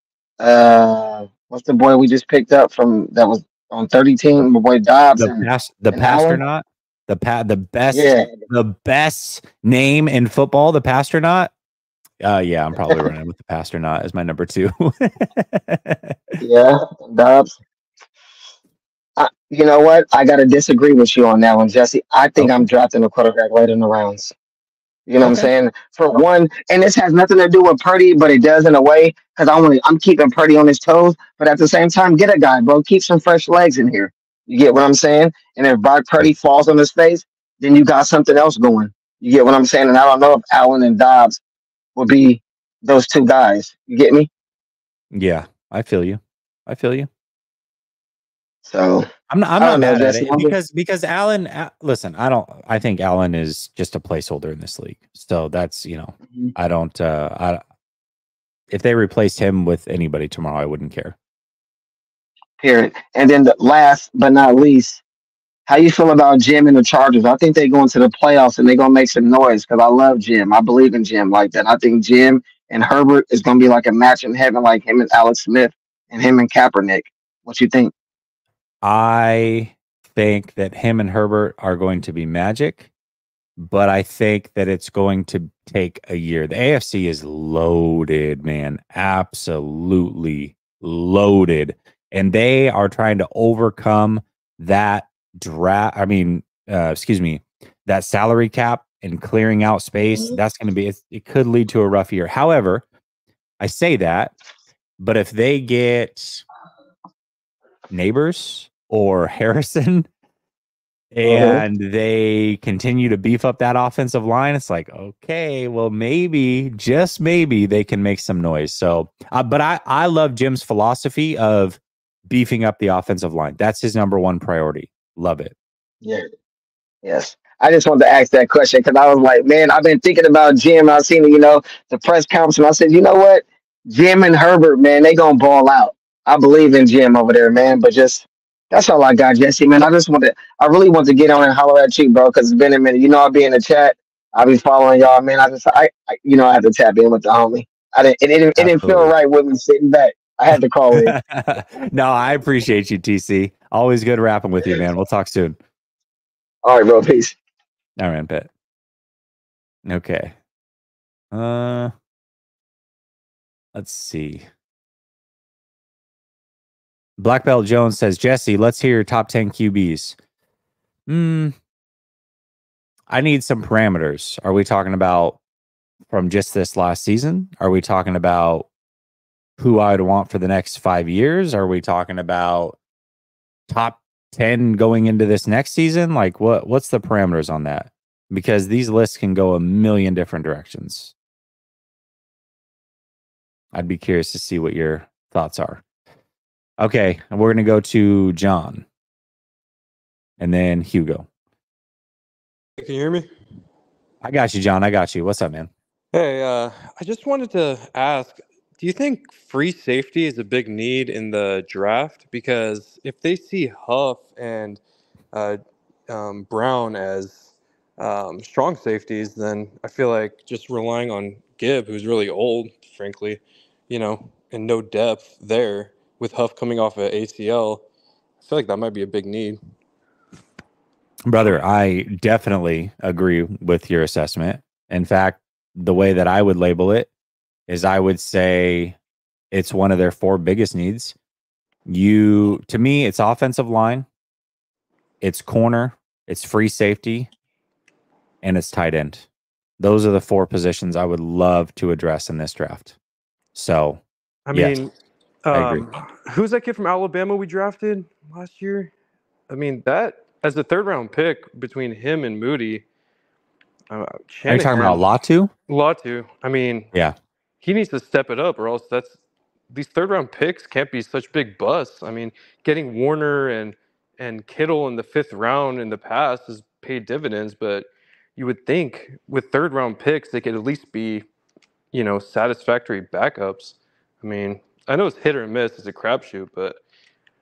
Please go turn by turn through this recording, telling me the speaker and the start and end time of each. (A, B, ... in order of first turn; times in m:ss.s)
0:00.4-0:06.4 A
0:05.2-0:11.5 B
0:07.9-0:08.3 A
0:12.2-0:16.1 B
0:16.4-0:17.5 A
0:19.2-0:24.3 A
0:22.4-0:22.7 B
0:25.1-0:41.4 A
0:42.0-0:44.3 A
0:45.1-0:47.1 B
0:48.6-0:49.1 A
0:49.3-0:57.6 B
0:49.6-0:50.5 A
0:58.7-1:01.2 B
1:02.6-1:05.0 A
1:05.7-1:17.9 A
1:18.8-1:22.9 B
1:23.6-1:42.8 B
1:43.6-1:44.3 B
1:45.0-1:46.4 B
1:47.9-1:50.1 B
1:51.1-2:05.5 B
1:51.2-1:51.6 A
2:07.0-2:31.1 A
2:28.6-2:29.1 B
2:30.9-2:35.6 B
2:36.6-2:37.4 A
2:38.0-2:38.5 B
2:39.8-2:40.3 B
2:41.3-2:41.9 B
2:43.7-2:44.4 B
2:47.2-2:50.2 B
2:51.1-2:51.5 B
2:53.1-2:55.4 B
2:56.1-2:58.7 B
2:59.6-3:02.8 B
3:03.7-3:11.1 B
3:13.7-3:15.8 B
3:16.8-3:18.8 B
3:20.4-3:21.3 B
3:22.8-3:23.3 C
3:24.2-3:25.7 B
3:26.1-3:34.8 C
3:35.3-3:47.8 C
3:48.4-3:49.6 C
3:51.3-3:57.1 B
3:57.7-3:59.0 B
3:59.5-4:01.2 B
4:01.8-4:04.0 B
4:05.2-4:07.3 B
4:08.4-4:09.2 B
4:09.8-4:12.9 B
4:13.5-4:14.0 B
4:14.5-4:14.9 C
4:14.5-4:14.8 B
4:15.4-4:18.9 C
4:15.5-4:15.9 B
4:19.5-4:22.8 C
4:23.9-4:25.0 C
4:24.5-4:25.5 B
4:25.7-4:26.9 C
4:27.6-4:29.2 C
4:29.7-4:41.2 C
4:41.9-4:46.8 C